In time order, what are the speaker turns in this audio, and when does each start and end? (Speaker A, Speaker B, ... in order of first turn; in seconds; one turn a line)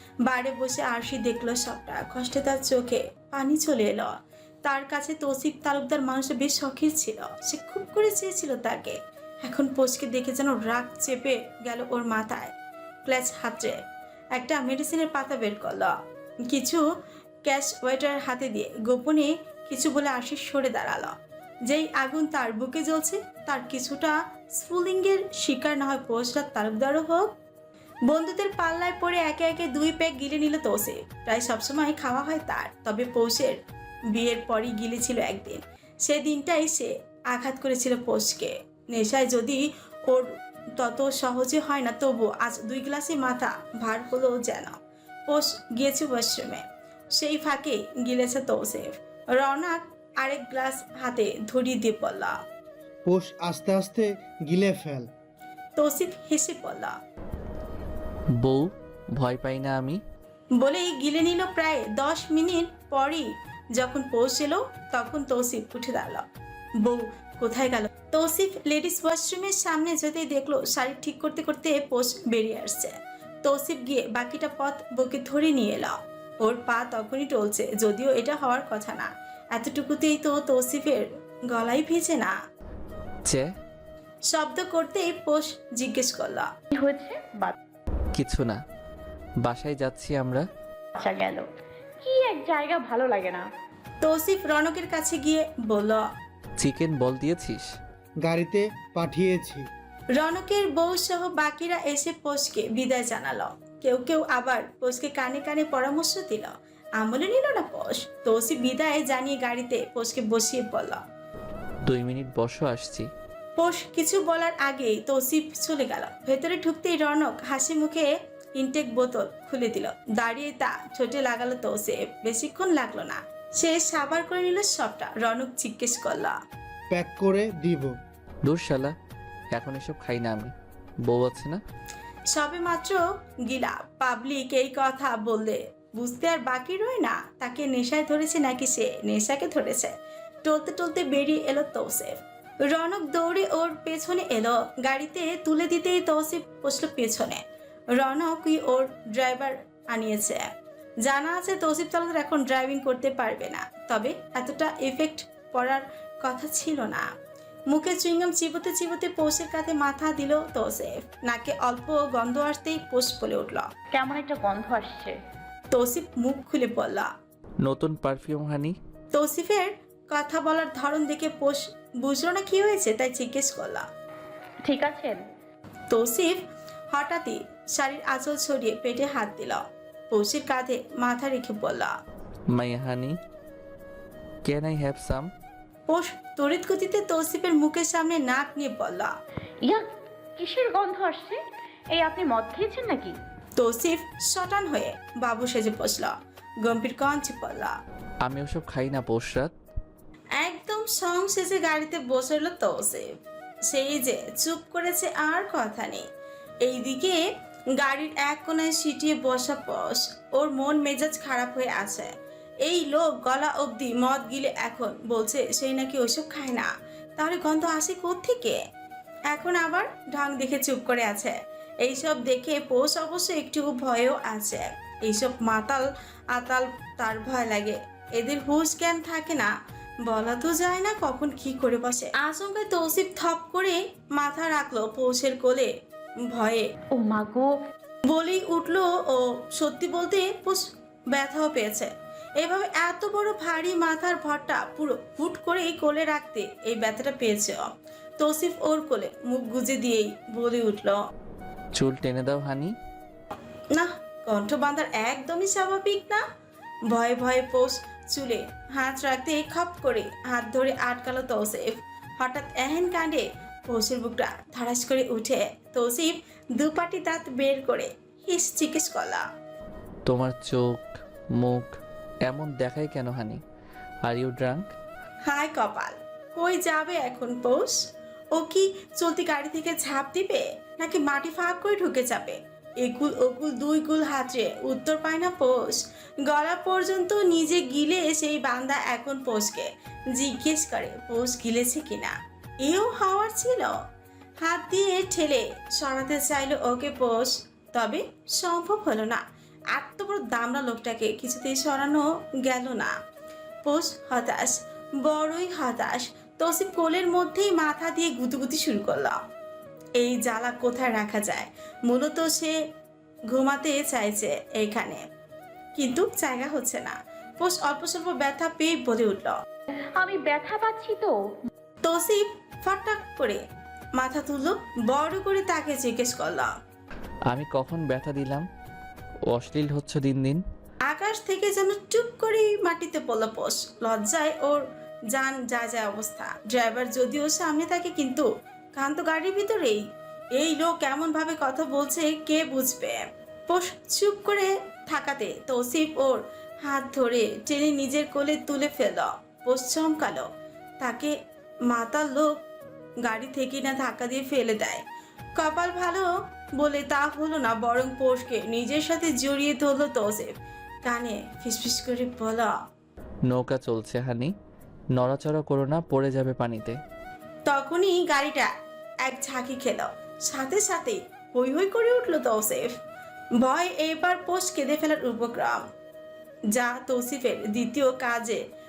Speaker A: 0.2-4.1
Speaker A: 4.6-12.5
Speaker A: 13.0-13.8
Speaker A: 14.3-15.9
Speaker A: 16.5-16.8
Speaker A: 17.4-21.1
Speaker A: 21.7-27.3
Speaker A: 28.1-33.5
Speaker A: 34.1-44.8
Speaker A: 45.3-46.6
Speaker A: 47.1-52.4
Speaker B: 53.0-55.1
Speaker A: 55.8-56.9
Speaker C: 58.4-60.0
Speaker A: 60.6-66.2
Speaker A: 66.8-82.3
Speaker A: 84.3-86.5
Speaker D: 86.7-87.5
Speaker C: 88.1-88.6
Speaker C: 89.4-90.4
Speaker D: 91.0-91.4
Speaker D: 92.0-93.4
Speaker A: 94.0-96.0
Speaker C: 96.6-97.6
Speaker B: 98.2-99.7
Speaker A: 100.1-111.0
Speaker C: 111.8-113.1
Speaker A: 113.5-126.3
Speaker B: 126.9-127.9
Speaker C: 128.4-128.9
Speaker C: 129.5-130.5
Speaker C: 131.0-131.6
Speaker A: 132.3-147.4
Speaker A: 147.9-150.5
Speaker A: 151.0-157.1
Speaker A: 157.7-163.7
Speaker D: 163.9-165.1
Speaker A: 165.7-167.1
Speaker C: 167.6-168.8
Speaker A: 169.1-173.8
Speaker D: 174.6-175.2
Speaker A: 175.9-181.9
Speaker C: 182.5-183.2
Speaker C: 184.4-185.3
Speaker A: 185.9-189.1
Speaker D: 190.3-191.4
Speaker D: 191.9-193.2
Speaker A: 193.6-197.7
Speaker C: 198.2-199.5
Speaker A: 200.4-203.1
Speaker A: 203.7-206.0
Speaker A: 206.6-207.2
Speaker A: 207.8-212.1
Speaker A: 212.6-218.6
Speaker A: 219.3-229.5
Speaker A: 230.0-235.7
Speaker A: 236.3-236.7
Speaker D: 236.9-237.5
Speaker A: 238.1-251.0
Speaker C: 251.7-252.7
Speaker A: 253.7-256.2
Speaker A: 256.9-269.2
Speaker C: 270.1-271.7
Speaker C: 272.2-273.4
Speaker C: 274.1-274.7
Speaker A: 275.3-277.8
Speaker A: 278.3-293.8
Speaker A: 294.4-299.2
Speaker A: 299.7-302.9
Speaker A: 303.6-309.2
Speaker A: 310.0-312.6
Speaker A: 313.3-315.0
Speaker A: 315.8-319.4
Speaker D: 320.0-321.1
Speaker A: 321.8-323.4
Speaker A: 324.0-326.5
Speaker C: 327.3-328.4
Speaker C: 329.3-330.4
Speaker A: 330.9-339.8
Speaker A: 340.4-350.3
Speaker A: 350.8-351.1
Speaker A: 351.7-352.4
Speaker A: 353.0-354.8
Speaker A: 355.4-360.3
Speaker A: 360.8-362.5
Speaker C: 363.3-364.3
Speaker C: 364.9-366.8
Speaker A: 367.4-368.5
Speaker A: 369.0-372.7
Speaker A: 373.4-375.6
Speaker A: 376.5-378.4